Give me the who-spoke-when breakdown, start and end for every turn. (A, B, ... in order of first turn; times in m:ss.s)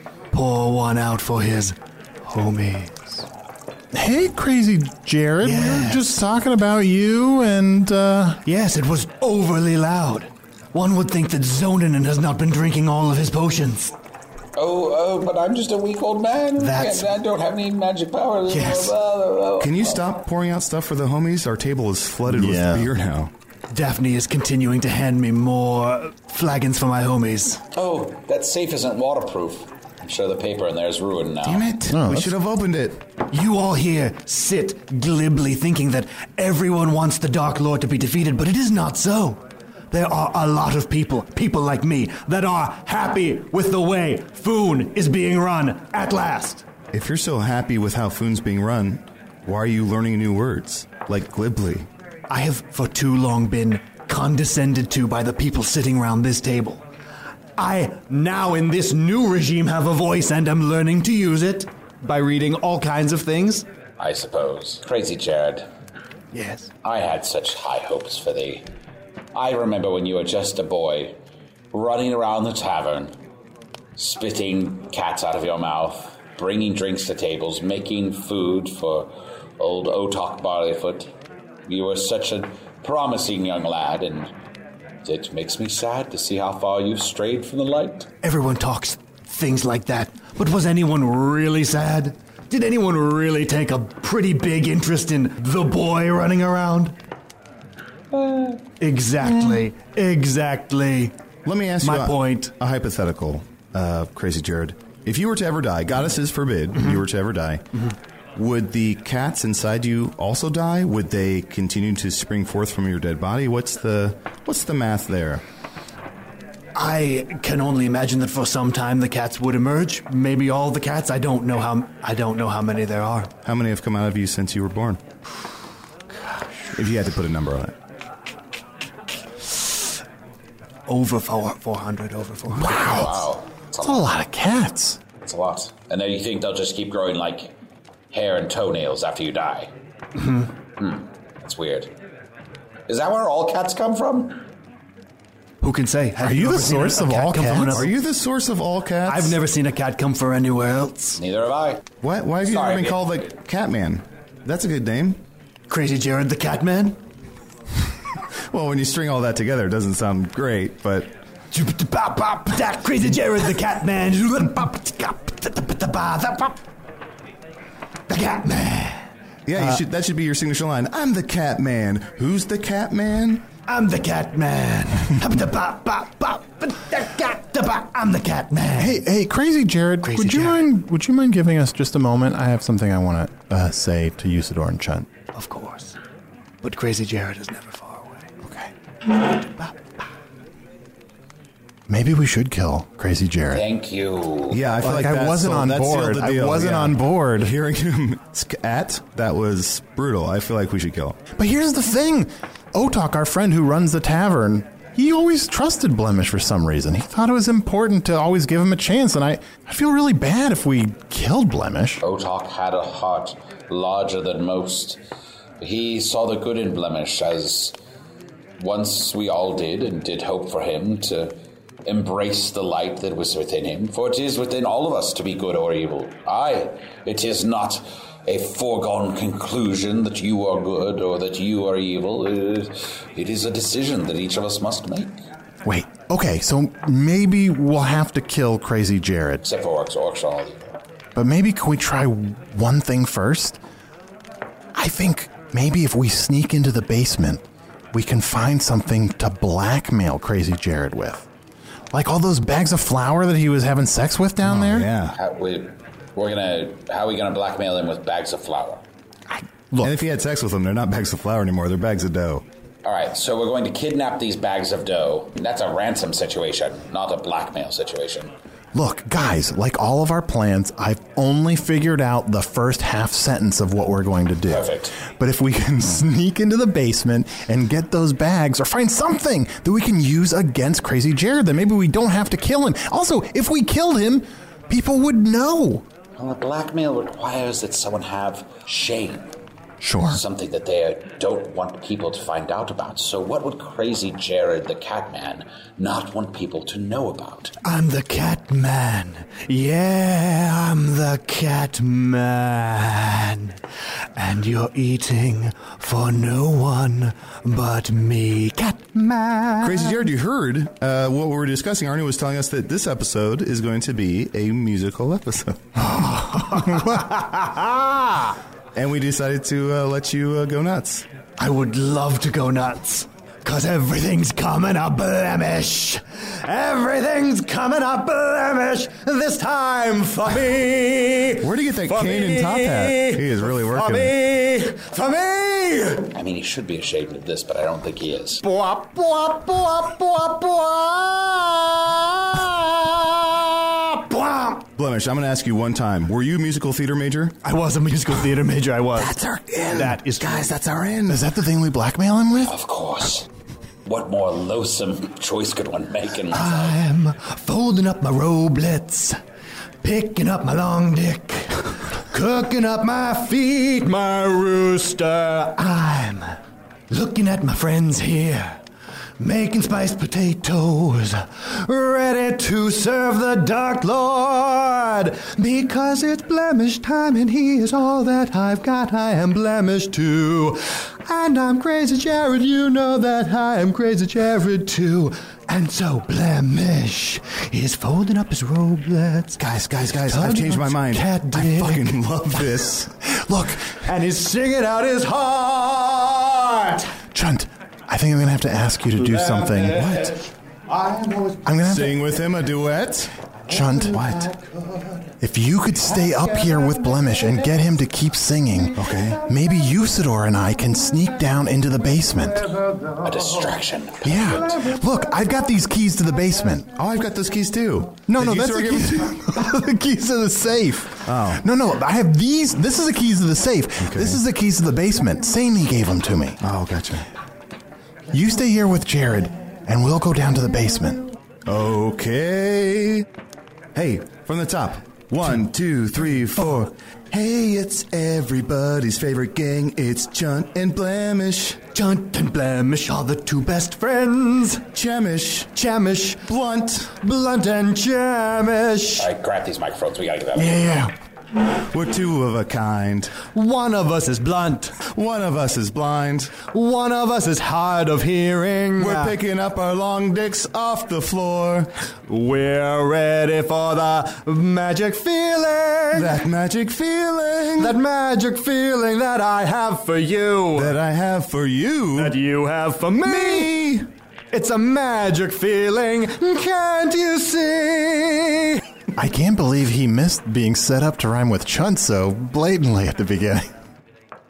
0:00.3-0:03.2 A
0:03.9-0:08.4 B
0:05.4-0:06.2 A
0:08.5-0:13.9 A
0:14.6-0:20.0 C
0:16.6-0:17.1 A
0:18.5-0:19.0 A
0:19.6-0:23.3 D
0:22.3-0:22.9 B
0:23.7-0:27.6 A
0:27.7-0:31.7 C
0:31.4-0:33.0 D
0:31.9-0:32.3 B
0:33.3-0:46.6 A
0:46.9-0:51.9 D
0:52.3-0:56.8 A
0:57.6-1:03.7 A
1:04.0-1:05.7 C
1:06.3-1:06.7 A
1:06.8-1:08.6 C
1:09.3-1:11.2 C
1:11.7-1:13.1 C
1:14.0-1:21.1 C
1:21.7-1:24.3 C
1:25.0-1:28.1 C
1:28.2-1:37.0 A
1:38.1-1:38.6 C
1:38.8-1:41.2 A
1:41.4-1:47.6 D
1:41.8-1:42.5 A
1:48.4-1:55.4 D
1:56.8-2:03.3 A
2:03.4-2:05.0 D
2:06.8-2:07.8 D
2:10.9-2:13.0 A
2:12.5-2:13.3 B
2:12.7-2:14.1 C
2:13.8-2:15.0 B
2:15.2-2:17.5 C
2:18.1-2:19.7 C
2:20.8-2:21.9 C
2:22.9-2:24.4 C
2:25.6-2:27.9 A
2:26.2-2:27.9 B
2:27.7-2:29.4 D
2:29.0-2:31.2 A
2:31.2-2:31.8 C
2:32.0-2:35.2 D
2:32.4-2:33.2 C
2:35.7-2:37.0 A
2:38.5-2:41.1 D
2:41.5-2:46.6 A
2:48.1-2:49.0 A
2:49.5-2:53.4 D
2:53.7-2:59.0 A
2:58.8-3:05.1 B
3:00.0-3:00.6 A
3:05.3-3:06.0 A
3:06.6-3:08.2 A
3:08.4-3:08.7 B
3:11.9-3:13.7 B
3:13.5-3:14.6 C
3:14.5-3:21.2 D
3:14.8-3:17.5 B
3:21.4-3:32.0 B
3:32.0-3:35.0 C
3:35.6-3:37.8 C
3:38.6-3:55.2 C
3:55.6-3:59.4 B
3:59.4-4:00.8 C
4:01.2-4:03.6 B
4:04.8-4:11.3 B
4:11.9-4:14.9 B
4:14.4-4:15.2 D
4:15.2-4:18.8 C
4:19.3-4:20.0 B
4:19.8-4:22.4 D
4:22.8-4:28.3 C
4:28.7-4:45.8 B
4:34.5-4:35.0 C
4:46.2-4:49.3 C
4:49.8-4:50.2 B
4:50.1-4:57.5 C
4:57.6-5:03.6 A
5:04.2-5:10.1 A
5:09.6-5:15.6 D
5:15.9-5:17.7 A
5:18.8-5:21.0 D
5:21.4-5:36.1 A
5:31.4-5:34.1 D
5:36.1-5:38.4 C
5:38.4-5:44.7 A
5:44.8-5:47.4 D
5:47.4-5:50.7 A
5:49.0-5:51.2 D
5:51.1-5:52.6 B
5:52.4-5:53.3 C
5:53.9-5:56.8 C
5:56.3-5:59.2 A
5:59.8-6:06.4 A
6:06.9-6:08.6 A
6:09.2-6:32.6 A
6:29.5-6:32.9 D
6:33.1-6:33.7 B
6:33.8-6:36.8 A
6:37.1-6:39.8 B
6:39.0-6:41.6 A
6:39.7-6:40.1 D
6:41.4-6:42.0 B
6:41.6-6:43.1 D
6:43.5-6:44.1 B
6:43.5-6:45.1 A
6:43.9-6:44.3 D
6:45.2-6:52.5 B
6:45.8-6:47.4 A
6:48.8-6:49.2 D
6:48.9-6:49.4 A
6:52.6-6:53.5 A
6:53.0-6:54.6 C
6:54.0-6:56.7 B
6:56.8-6:59.2 D
6:58.1-7:06.4 B
7:01.0-7:01.4 D
7:03.8-7:04.2 D
7:06.4-7:07.1 D
7:08.1-7:11.0 B
7:11.5-7:13.0 D
7:13.8-7:21.6 D
7:21.7-7:24.6 A
7:24.7-7:25.5 D
7:25.6-7:26.3 A
7:26.2-7:26.9 D
7:26.9-7:29.1 A
7:29.0-7:30.8 C
7:30.4-7:30.9 B
7:31.7-7:33.1 D
7:33.2-7:34.8 A
7:34.9-7:36.3 D
7:36.3-7:39.2 A
7:38.8-7:41.7 D
7:42.1-7:46.2 A
7:45.9-7:47.8 D
7:47.6-7:50.8 A
7:50.6-7:52.2 D
7:51.9-7:53.7 A
7:53.0-7:53.9 D
7:54.3-7:58.6 A
7:59.0-8:03.5 B